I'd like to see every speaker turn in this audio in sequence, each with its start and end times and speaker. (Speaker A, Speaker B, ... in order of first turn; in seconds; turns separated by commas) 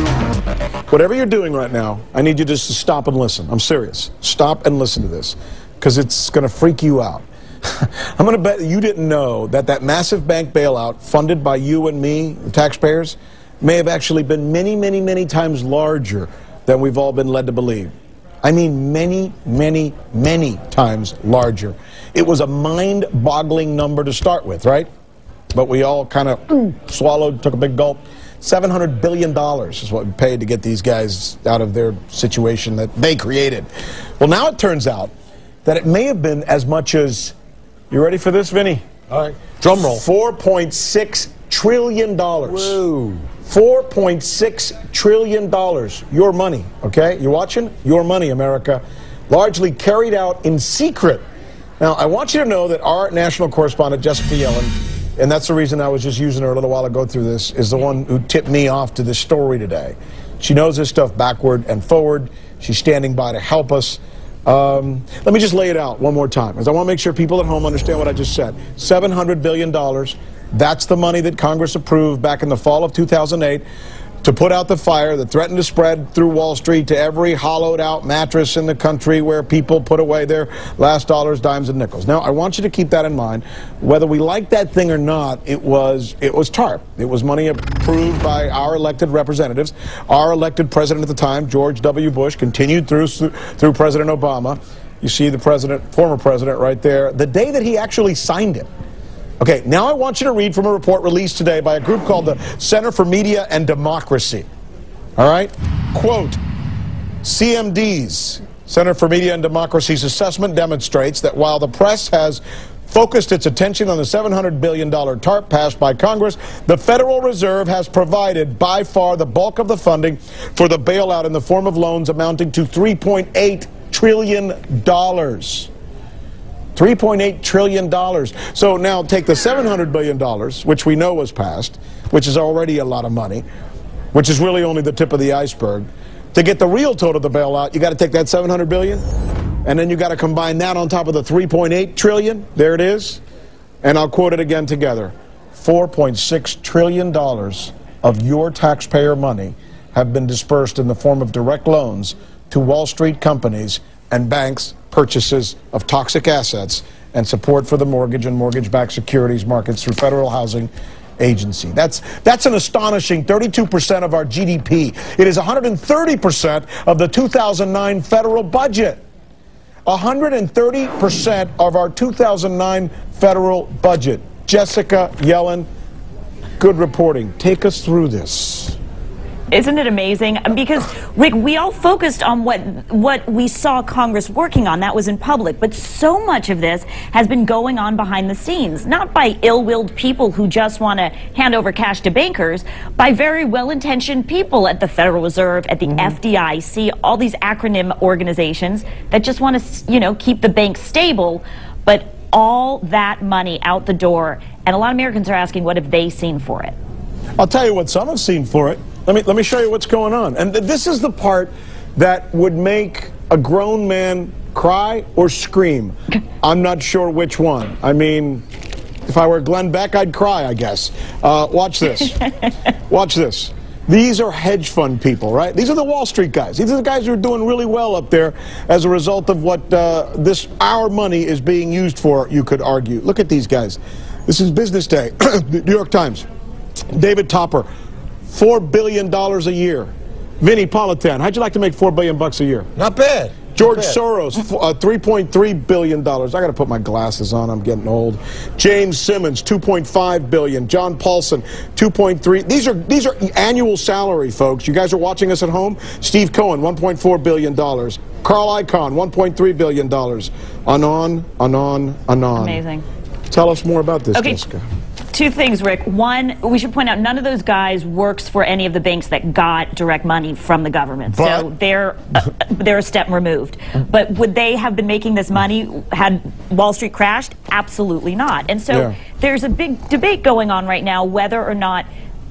Speaker A: 0.9-17.9, Speaker A: 18.4-24.9, Speaker A: 25.5-33.7, Speaker A: 34.2-35.1, Speaker A: 35.6-37.3, Speaker A: 37.9-38.9, Speaker B: 39.1-40.0, Speaker A: 39.8-42.8, Speaker B: 42.5-43.3, Speaker A: 43.5-51.2, Speaker A: 51.8-73.6, Speaker A: 74.2-98.7, Speaker A: 99.4-104.5, Speaker A: 105.2-106.4, Speaker A: 107.2-125.7, Speaker A: 126.8-133.4, Speaker A: 134.1-139.0, Speaker A: 139.7-143.2, Speaker A: 143.8-169.0, Speaker A: 169.9-175.7, Speaker A: 176.6-178.8, Speaker C: 179.5-206.7, Speaker A: 207.4-218.4, Speaker A: 219.1-222.3, Speaker A: 222.9-236.3, Speaker A: 236.9-237.7, Speaker A: 238.3-239.9, Speaker A: 240.4-242.7, Speaker B: 242.8-244.0, Speaker A: 243.5-262.6, Speaker C: 262.4-262.9, Speaker A: 263.3-264.6, Speaker C: 264.1-264.4, Speaker C: 265.1-281.9, Speaker A: 271.1-271.5